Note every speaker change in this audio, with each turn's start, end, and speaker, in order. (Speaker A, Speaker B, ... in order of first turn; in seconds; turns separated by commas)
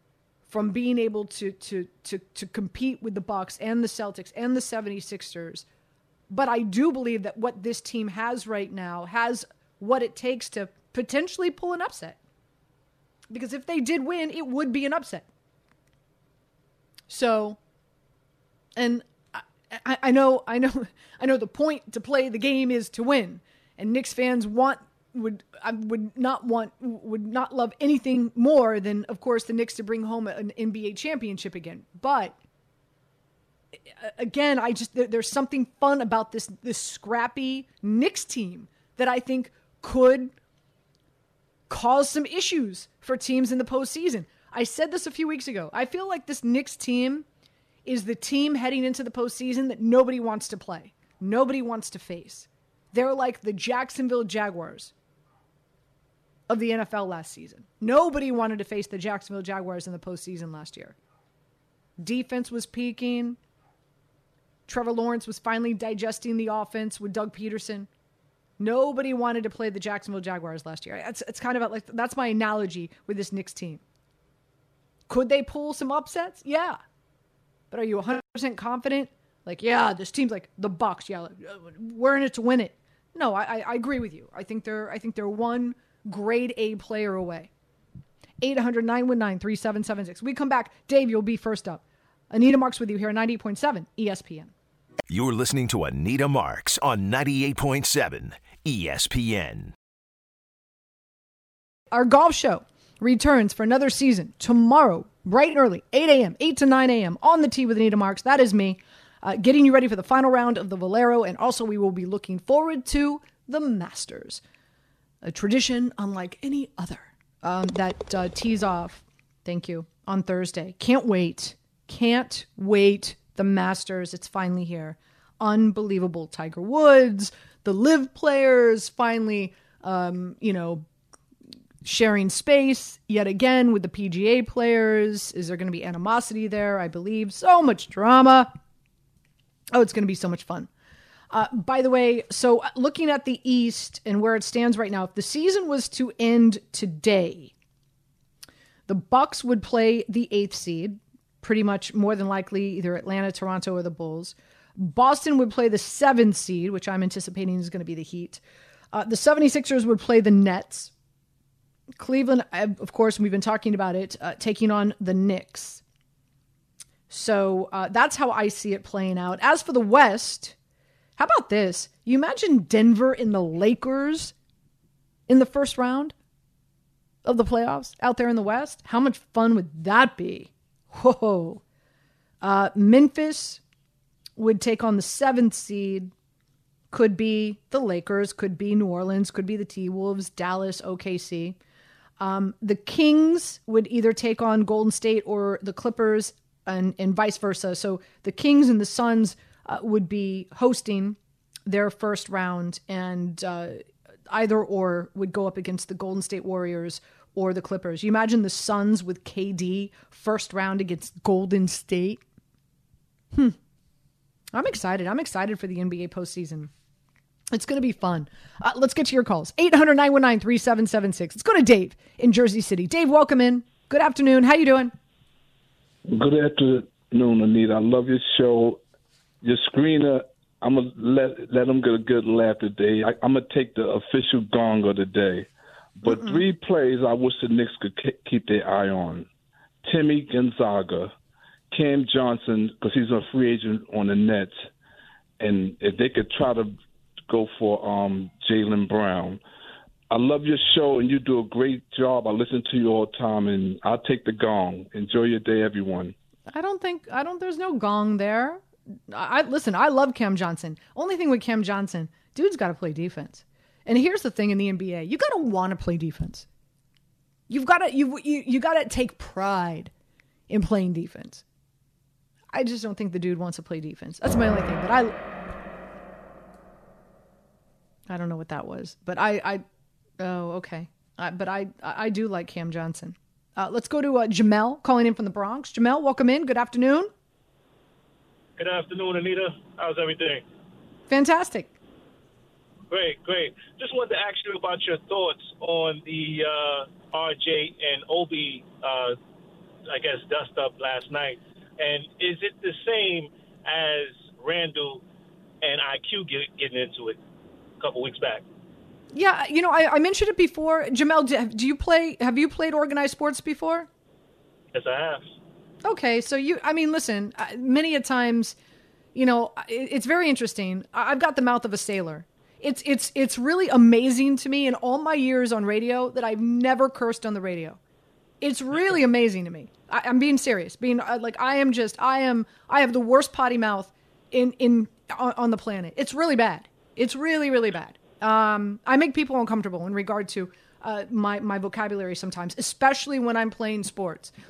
Speaker A: 0.5-5.6, Speaker A: 6.3-12.2, Speaker A: 13.3-15.2, Speaker A: 17.1-17.6, Speaker A: 18.8-32.3, Speaker A: 33.9-40.3, Speaker A: 41.7-47.2, Speaker A: 47.9-54.9, Speaker A: 56.5-60.9, Speaker A: 62.0-63.4, Speaker A: 64.7-67.9, Speaker A: 68.6-73.8, Speaker A: 75.1-76.8, Speaker A: 77.7-87.5, Speaker A: 88.4-94.5, Speaker B: 95.1-99.7, Speaker A: 101.9-114.4, Speaker A: 115.2-130.8, Speaker A: 131.8-138.5, Speaker A: 139.7-140.7, Speaker A: 141.3-147.5, Speaker A: 148.9-158.4, Speaker A: 158.9-160.9, Speaker A: 162.0-165.8, Speaker A: 167.1-170.5, Speaker A: 171.2-174.3, Speaker A: 175.3-176.1, Speaker A: 177.2-181.6, Speaker A: 182.4-183.6, Speaker A: 184.4-186.1, Speaker A: 186.9-191.6, Speaker A: 192.2-212.2, Speaker A: 214.5-216.7, Speaker A: 217.5-224.9, Speaker C: 226.1-228.8, Speaker C: 229.4-235.5, Speaker C: 236.0-239.3, Speaker A: 236.1-236.4, Speaker C: 239.8-241.1, Speaker C: 241.7-244.6, Speaker C: 245.4-246.8, Speaker C: 247.3-249.4, Speaker C: 250.1-256.1, Speaker A: 256.5-266.4, Speaker A: 267.5-269.9, Speaker A: 270.5-271.4, Speaker A: 272.5-275.1, Speaker A: 278.1-279.6, Speaker A: 280.2-287.1, Speaker D: 288.6-290.4, Speaker A: 291.1-291.7, Speaker D: 292.9-299.2, Speaker D: 299.9-305.0, Speaker D: 305.6-307.2, Speaker D: 307.8-308.4, Speaker A: 309.1-313.9, Speaker D: 314.7-315.3, Speaker A: 315.8-318.6, Speaker A: 319.1-327.8, Speaker A: 328.4-344.3